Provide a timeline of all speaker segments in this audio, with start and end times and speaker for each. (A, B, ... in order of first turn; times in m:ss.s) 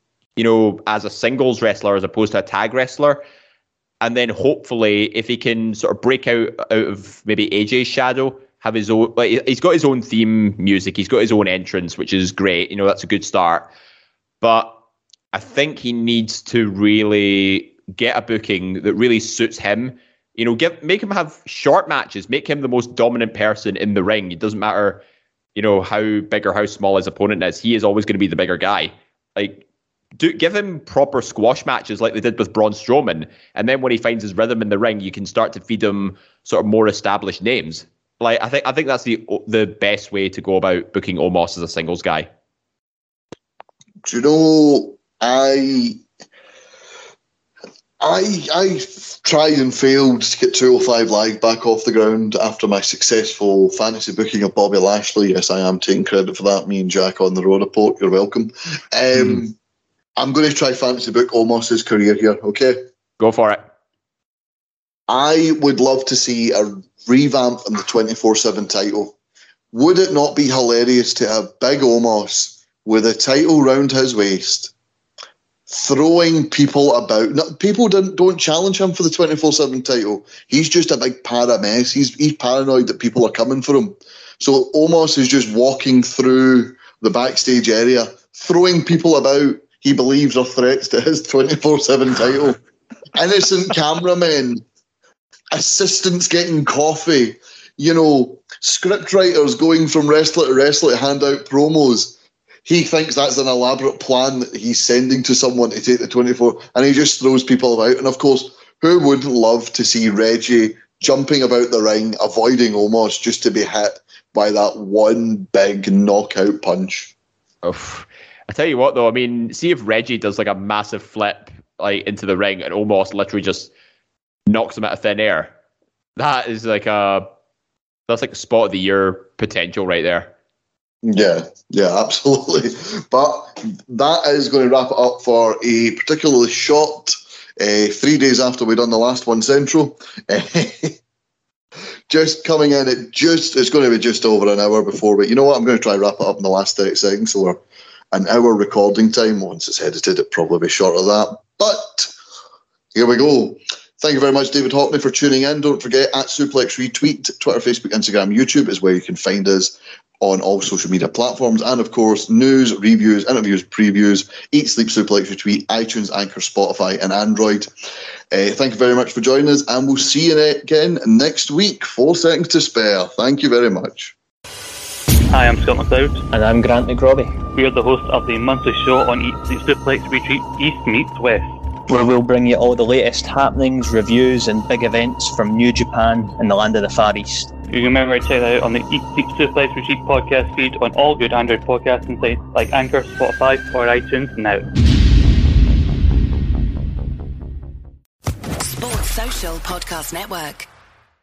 0:00.4-0:03.2 A
0:04.0-0:13.7 A
0:14.4-0:14.8 A
0:15.3-0:25.0 A
0:25.6-0:29.6 A
0:30.2-0:42.3 A
0:44.0-0:46.0 B
0:48.0-0:59.6 B
1:00.2-1:02.8 B
1:03.2-1:03.6 A
1:05.1-1:09.2 B
1:09.7-1:14.7 B
1:15.7-1:32.6 B
1:33.2-1:34.6 B
1:35.5-1:57.1 B
1:57.6-2:03.7 A
2:04.5-2:05.5 A
2:06.2-2:07.3 A
2:08.1-2:10.3 A
2:11.0-2:21.0 B
2:22.1-2:27.6 B
2:28.1-2:32.1 B
2:32.9-2:47.7 B
2:48.3-2:54.2 B
2:55.3-2:56.2 C
2:56.3-2:57.4 D
2:57.5-3:01.5 C
3:01.9-3:07.5 D
3:07.7-3:14.6 C
3:18.6-3:20.7 E